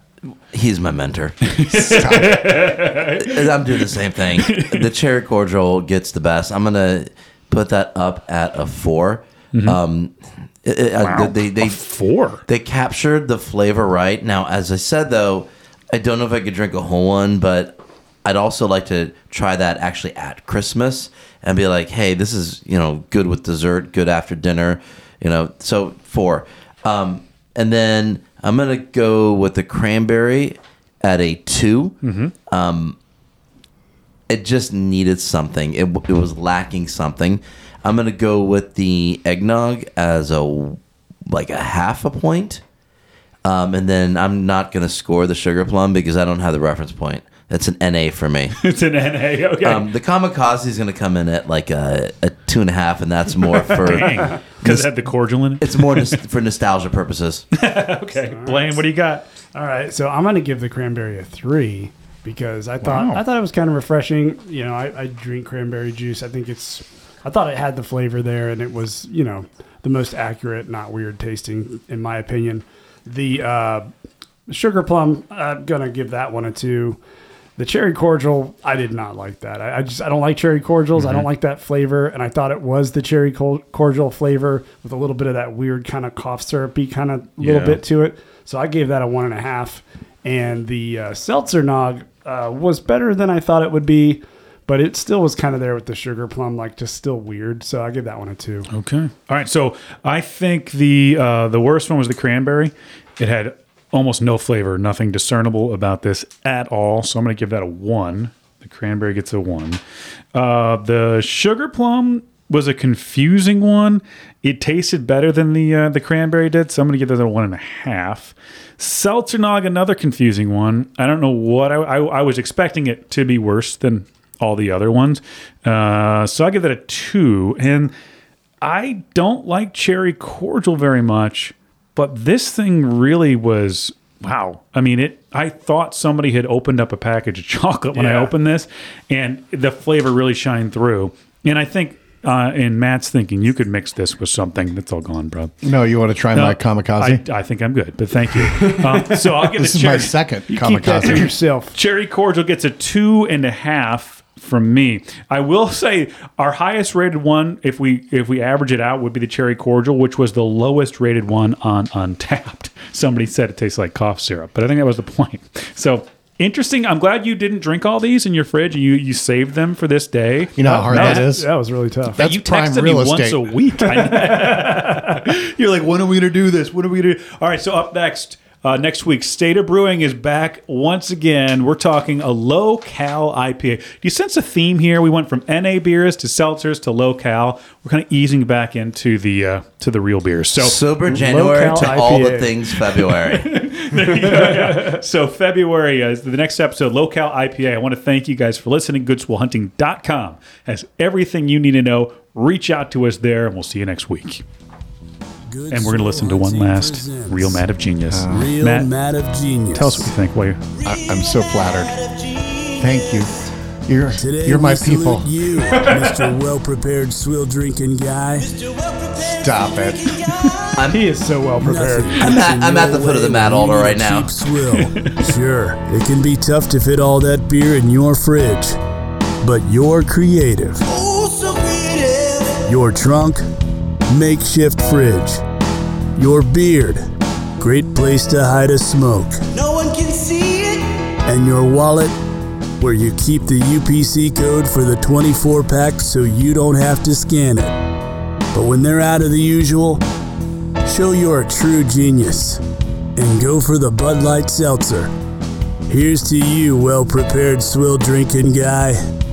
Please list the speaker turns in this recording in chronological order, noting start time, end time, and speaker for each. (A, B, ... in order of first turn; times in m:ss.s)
0:00.5-0:01.4 A
0:01.4-0:04.9 B
0:01.7-0:02.6 C
0:03.2-0:11.8 A
0:09.5-0:09.8 B
0:11.0-0:12.4 B
0:12.4-0:32.0 A
0:32.0-0:32.3 B
0:32.5-0:33.0 A
0:34.3-0:42.6 A
0:43.4-0:48.6 A
0:48.6-0:49.9 B
0:49.6-0:54.9 A
0:53.5-0:56.2 B
0:55.6-0:57.4 A
0:57.5-0:59.2 B
0:58.2-0:58.8 D
0:59.5-1:13.9 D
1:02.8-1:03.2 B
1:14.5-1:17.0 D
1:17.6-1:38.7 D
1:21.0-1:21.2 B
1:27.4-1:27.8 B
1:38.7-1:49.8 B
1:50.3-2:07.9 B
2:08.6-2:25.5 B
2:17.9-2:18.3 D
2:25.6-2:27.2 C
2:26.3-2:30.2 B
2:29.4-2:31.3 C
2:30.5-2:31.7 D
2:30.7-2:51.3 B
2:50.6-2:51.5 C
2:50.6-2:52.2 D
2:52.1-2:53.6 C
2:52.1-3:10.8 B
3:10.6-3:13.6 A
3:11.0-3:12.7 D
3:12.9-3:24.4 B
3:13.9-3:15.0 D
3:25.5-3:27.6 E
3:25.7-3:28.9 B
3:28.1-3:28.5 C
3:28.3-3:30.1 E
3:29.7-3:30.6 B
3:30.8-3:32.0 C
3:32.2-3:32.7 F
3:32.8-3:35.3 C
3:34.2-3:38.6 E
3:38.6-3:39.2 F
3:39.1-3:40.2 C
3:40.8-3:41.0 A
3:40.8-3:42.3 D
3:41.6-3:48.8 E
3:42.2-3:44.3 A
3:44.8-3:45.1 B
3:49.4-3:51.0 E
3:51.0-3:52.6 F
3:52.6-3:53.5 E
3:54.1-3:55.4 E
3:56.2-3:57.0 E
3:57.6-3:59.6 E
3:59.6-4:01.1 F
4:01.2-4:02.2 E
4:02.8-4:07.8 E
4:08.5-4:10.0 E
4:10.8-4:12.6 E
4:13.2-4:15.1 E
4:15.9-4:19.0 E